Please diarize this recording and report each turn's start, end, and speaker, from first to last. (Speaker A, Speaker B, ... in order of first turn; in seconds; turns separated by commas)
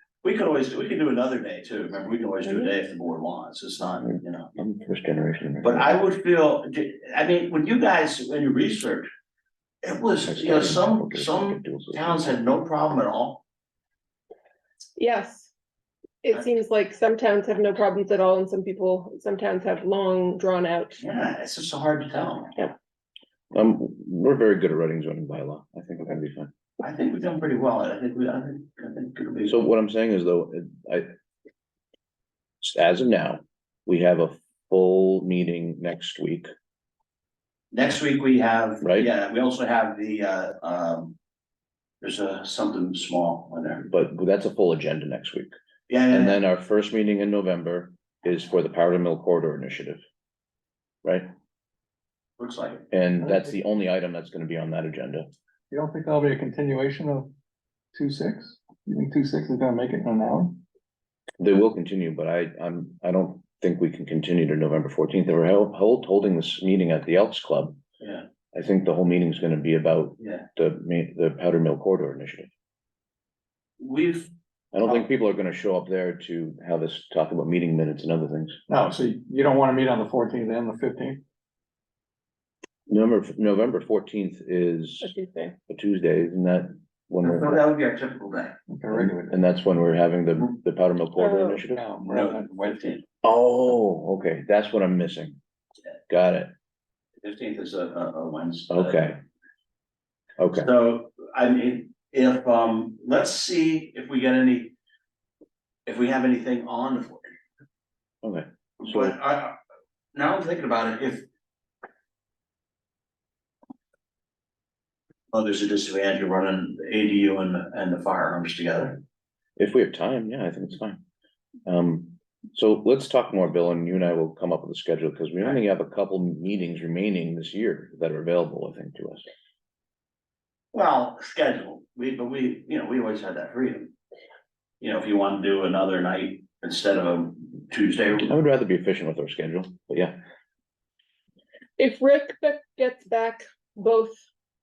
Speaker A: 0.2-4.5, Speaker B: 4.1-5.9, Speaker A: 5.6-9.1, Speaker A: 9.8-13.4, Speaker B: 10.2-12.3, Speaker C: 15.0-15.5, Speaker C: 16.2-21.0, Speaker A: 21.0-22.5, Speaker B: 23.5-26.5, Speaker A: 26.8-29.5, Speaker B: 29.5-31.1, Speaker B: 32.6-36.5, Speaker A: 37.7-41.1, Speaker B: 38.8-39.1, Speaker A: 42.0-43.8, Speaker B: 43.8-45.5, Speaker A: 45.9-46.4, Speaker B: 46.1-50.0, Speaker A: 52.4-52.9, Speaker B: 52.9-55.3, Speaker D: 53.2-53.5, Speaker D: 55.7-57.3, Speaker D: 57.9-60.6, Speaker B: 61.4-67.8, Speaker A: 68.0-68.2, Speaker B: 68.5-72.5, Speaker A: 70.2-70.4, Speaker A: 73.8-74.3, Speaker B: 74.7-78.5, Speaker D: 78.7-81.2, Speaker B: 82.9-85.1, Speaker C: 85.0-85.5, Speaker B: 85.7-87.6, Speaker A: 87.2-88.6, Speaker D: 88.7-89.4, Speaker B: 88.9-91.8, Speaker C: 91.2-91.6, Speaker D: 91.7-93.0, Speaker A: 92.0-93.0, Speaker B: 93.2-95.4, Speaker B: 96.1-96.5, Speaker A: 97.2-99.0, Speaker B: 98.7-99.2, Speaker B: 100.4-100.7, Speaker A: 100.5-104.7, Speaker A: 105.9-107.3, Speaker B: 108.2-109.1, Speaker A: 108.8-109.5, Speaker A: 110.1-111.2, Speaker A: 115.3-119.0, Speaker B: 119.6-121.0, Speaker B: 121.7-129.2, Speaker A: 130.7-133.9, Speaker A: 134.8-138.3, Speaker B: 138.1-140.2, Speaker C: 141.8-144.2